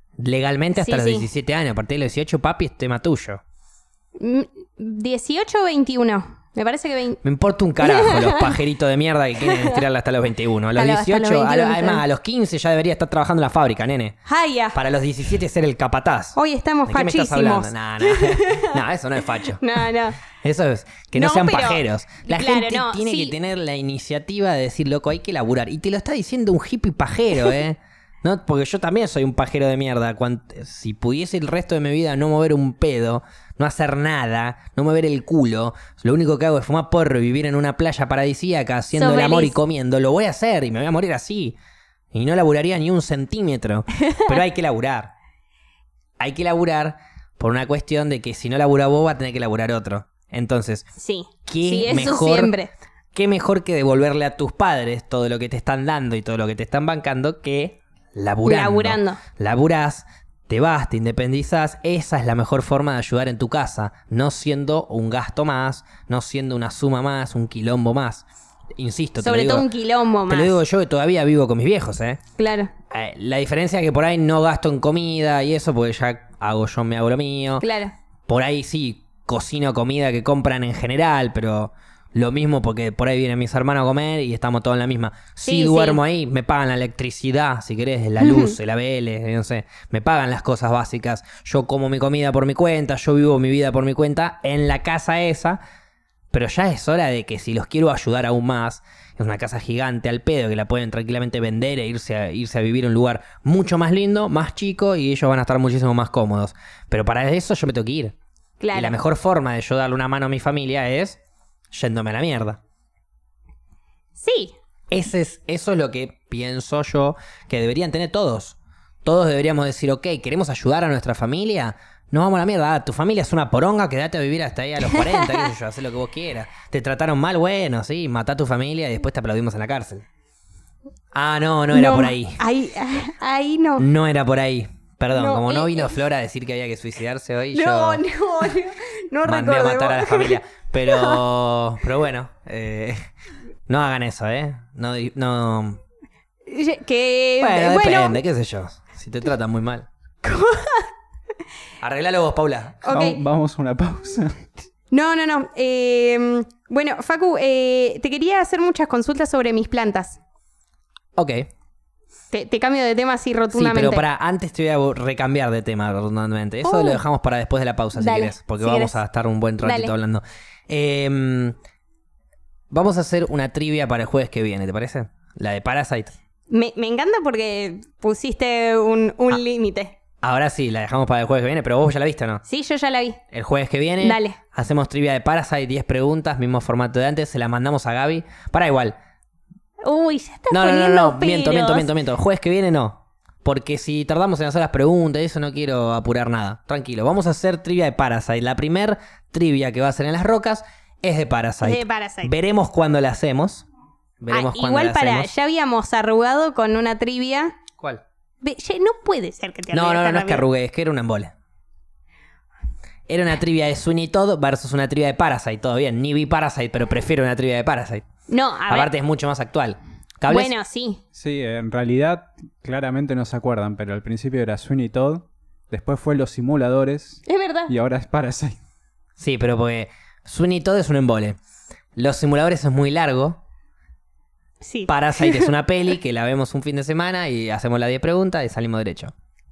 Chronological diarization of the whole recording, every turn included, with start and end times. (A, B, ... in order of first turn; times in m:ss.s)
0:00.2-0:03.4 A
0:00.8-0:01.3 B
0:04.2-0:07.2 B
0:07.2-0:14.2 A
0:07.8-0:08.6 B
0:09.4-0:09.8 B
0:10.7-0:12.0 B
0:14.3-0:14.8 B
0:14.7-0:19.6 A
0:16.4-0:18.8 B
0:19.5-0:20.2 B
0:20.2-0:41.6 A
0:21.2-0:23.4 B
0:38.9-0:39.6 B
0:42.1-0:45.1 A
0:44.0-0:44.4 B
0:46.2-0:50.9 A
0:51.0-0:52.7 B
0:51.5-0:52.5 A
0:53.1-1:08.2 A
0:58.4-0:59.2 B
1:08.8-1:09.7 A
1:09.2-1:10.6 B
1:10.3-1:12.2 A
1:12.4-1:12.7 B
1:12.9-1:17.7 A
1:17.6-1:17.9 B
1:18.3-1:35.6 A
1:25.4-1:26.0 B
1:28.2-1:28.6 B
1:36.3-1:48.2 A
1:48.6-1:49.0 B
1:48.7-1:51.2 A
1:51.7-1:52.6 A
1:54.2-1:54.5 B
1:54.9-2:10.1 A
2:04.8-2:05.5 B
2:11.1-2:12.4 A
2:11.7-2:13.9 B
2:13.8-2:18.0 A
2:15.2-2:16.0 B
2:17.5-2:21.2 B
2:19.2-2:23.0 A
2:23.7-2:25.8 A
2:26.5-2:28.2 B
2:27.4-2:29.9 A
2:30.2-2:30.9 B
2:31.8-2:32.8 A
2:32.8-2:33.2 B
2:32.9-2:34.5 C
2:34.9-2:40.2 B
2:41.2-2:41.5 A
2:42.3-2:44.0 B
2:43.5-2:51.6 A
2:46.6-2:47.0 B
2:48.0-2:49.0 B
2:49.6-2:49.9 B
2:52.7-2:56.2 A
2:56.5-3:00.0 B
3:00.2-3:02.4 A
3:02.5-3:03.2 B
3:03.3-3:09.0 A
3:04.0-3:04.4 B
3:09.8-3:11.9 B
3:10.5-3:23.7 A
3:21.6-3:22.3 B
3:24.2-3:25.3 A
3:24.3-3:27.6 B
3:28.4-3:30.4 B
3:29.7-3:31.3 A
3:33.1-3:38.1 A
3:38.3-3:38.9 B
3:38.7-3:40.5 A
3:40.3-3:41.0 B
3:41.2-3:48.6 C
3:47.3-3:47.7 B
3:49.2-3:51.4 A
3:52.0-3:53.4 A
3:54.6-3:55.5 B
3:54.9-3:59.1 A